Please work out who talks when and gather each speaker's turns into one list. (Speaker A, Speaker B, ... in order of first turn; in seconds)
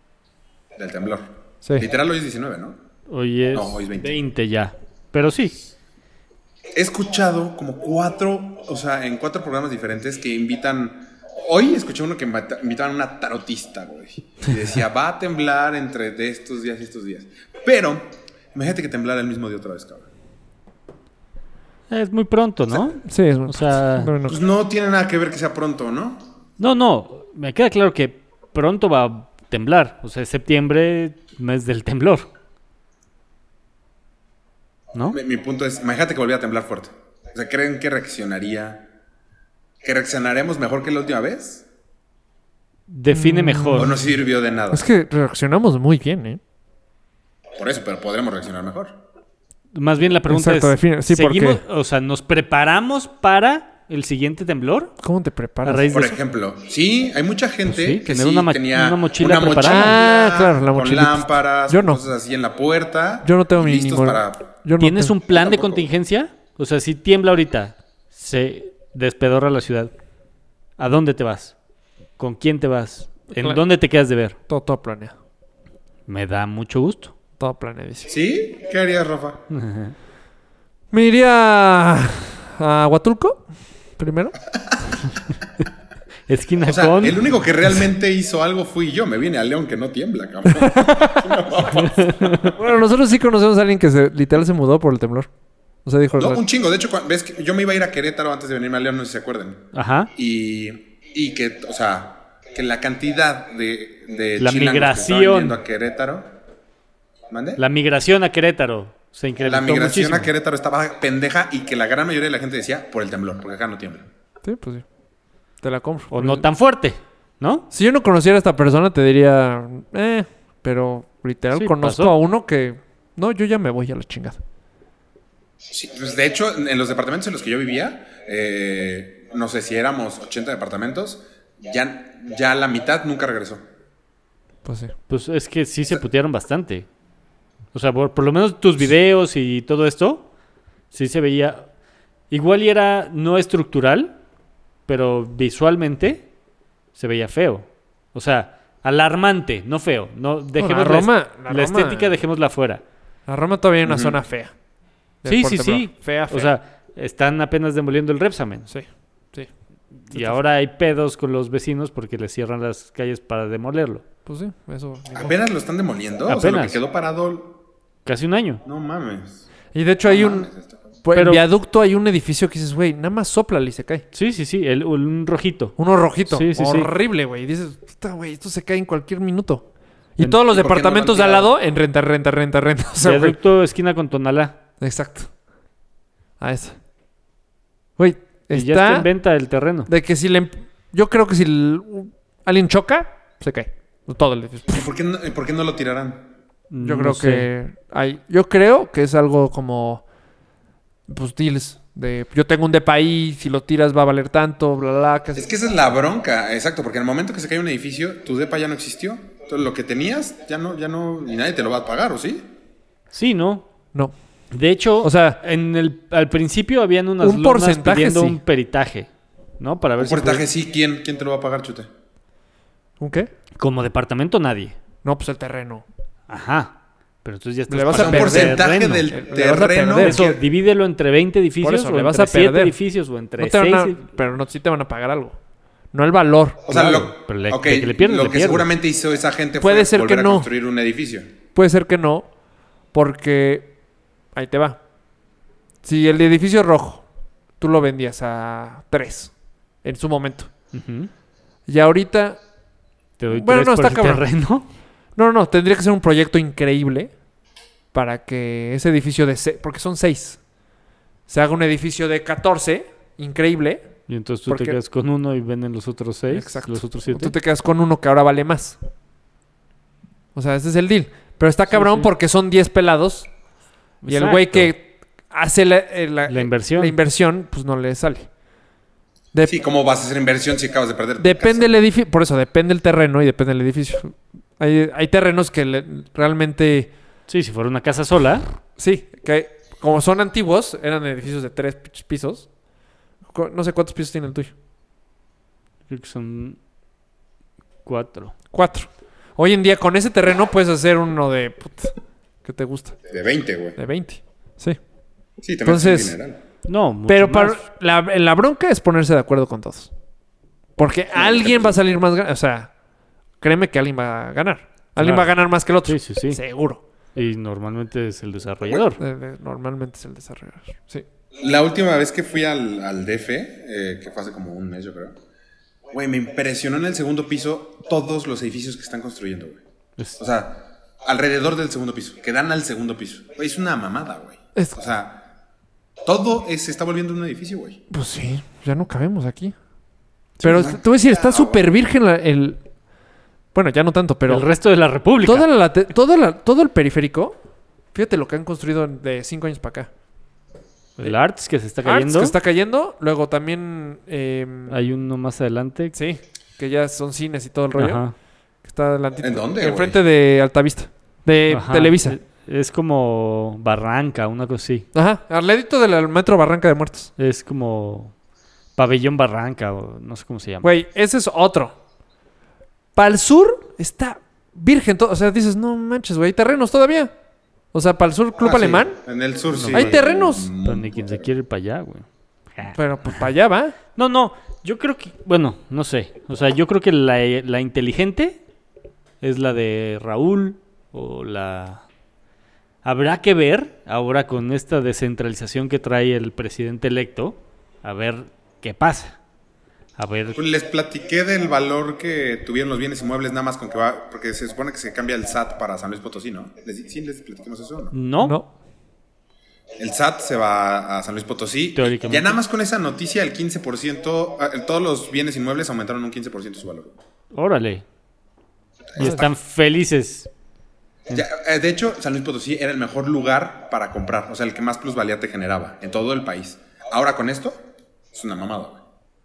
Speaker A: 0.8-2.8, 3.5-4.2, 6.7-20.1, 24.3-26.3, 35.1-38.9, 39.8-41.6, 43.8-44.9, 47.5-49.0, 55.9-64.5, 65.3-65.9, 78.1-79.4, 86.7-92.5, 96.2-106.3, 107.3-107.6, 109.4-114.1, 125.7-133.6, 153.8-154.2, 165.1-167.6, 168.6-169.4, 170.1-170.8, 180.5-181.5, 194.7-196.3, 205.3-212.5, 220.0-221.9, 227.9-230.3, 236.7-241.3, 279.5-281.7, 303.1-303.8, 305.4-306.4, 311.1-311.8, 321.4-325.1, 325.9-329.6, 330.2-335.3, 336.0-337.8, 340.4-341.6, 359.2-360.0, 378.4-381.3, 400.3-407.9, 409.8-416.9, 418.9-419.3, 421.1-428.8
Speaker B: 3.1-5.7, 21.9-24.1, 26.6-32.3, 42.9-44.0, 49.7-54.9, 55.6-56.2, 57.7-60.0, 64.8-69.9, 70.8-71.5, 72.2-74.4, 76.1-77.1, 79.5-79.9, 86.3-87.3, 91.7-92.4, 99.7-100.1, 104.4-105.6, 107.6-110.3, 116.1-117.7, 121.5-122.1, 135.1-136.9, 137.7-140.2, 140.9-141.7, 142.3-144.2, 144.9-146.2, 146.9-152.8, 155.2-158.7, 160.1-164.0, 166.3-166.8, 168.1-168.6, 171.2-171.4, 174.1-175.8, 176.3-176.9, 182.9-184.5, 188.5-189.9, 196.7-197.5, 213.1-213.7, 214.5-219.1, 219.6-220.4, 223.6-224.8, 226.3-229.1, 230.0-234.0, 236.7-238.7, 250.7-251.1, 253.2-254.7, 264.1-267.4, 271.7-272.1, 274.0-274.7, 276.3-277.0, 287.3-288.4, 295.9-296.6, 297.8-298.3, 306.6-307.6, 315.0-315.3, 315.8-316.4, 317.1-319.0, 344.3-345.5, 351.0-352.4, 354.7-355.9, 357.8-358.1, 361.5-364.9, 367.2-368.1, 368.8-370.7, 379.5-379.9, 380.6-383.2, 383.9-388.4, 389.2-391.8, 392.8-399.2, 400.0-400.4, 407.9-408.3, 411.8-412.4, 417.3-417.8, 419.0-420.3
Speaker C: 23.0-24.4, 43.1-43.9, 44.7-46.4, 50.3-51.6, 55.0-55.8, 59.6-62.0, 63.2-65.1, 74.5-75.1, 77.4-78.1, 80.9-83.4, 84.0-84.4, 90.5-91.5, 92.4-95.3, 95.8-96.4, 114.4-114.8, 115.6-116.5, 117.7-124.4, 134.6-134.9, 150.6-152.1, 153.3-154.5, 155.2-156.5, 158.7-159.5, 160.1-160.4, 164.2-165.3, 169.7-170.5, 171.0-174.0, 175.8-179.7, 180.2-183.3, 184.8-185.3, 186.4-186.8, 188.0-189.1, 189.9-194.8, 196.8-200.0, 201.1-205.5, 215.0-215.4, 217.2-218.4, 223.0-223.3, 225.0-225.8, 227.7-230.4, 231.6-232.8, 233.4-235.4, 235.9-236.9, 239.6-240.5, 241.5-242.3, 242.9-243.7, 244.3-244.8, 245.8-247.0, 247.6-249.3, 249.8-250.5, 251.7-252.4, 253.3-254.2, 255.2-257.1, 257.9-260.4, 261.3-263.9, 264.5-264.8, 266.3-268.8, 270.3-273.3, 274.1-278.3, 281.2-286.9, 288.8-292.5, 293.3-294.5, 298.5-301.9, 302.4-303.0, 303.8-304.8, 305.6-306.1, 307.1-309.9, 310.8-312.7, 313.4-316.8, 319.0-321.0, 337.9-339.6, 340.4-342.6, 343.5-344.4, 345.2-347.4, 347.9-349.9, 351.8-354.8, 355.9-358.0, 358.6-362.2, 364.9-367.1, 370.6-371.7, 372.9-377.1, 377.7-379.0, 379.7-380.5, 382.7-383.8, 408.2-408.5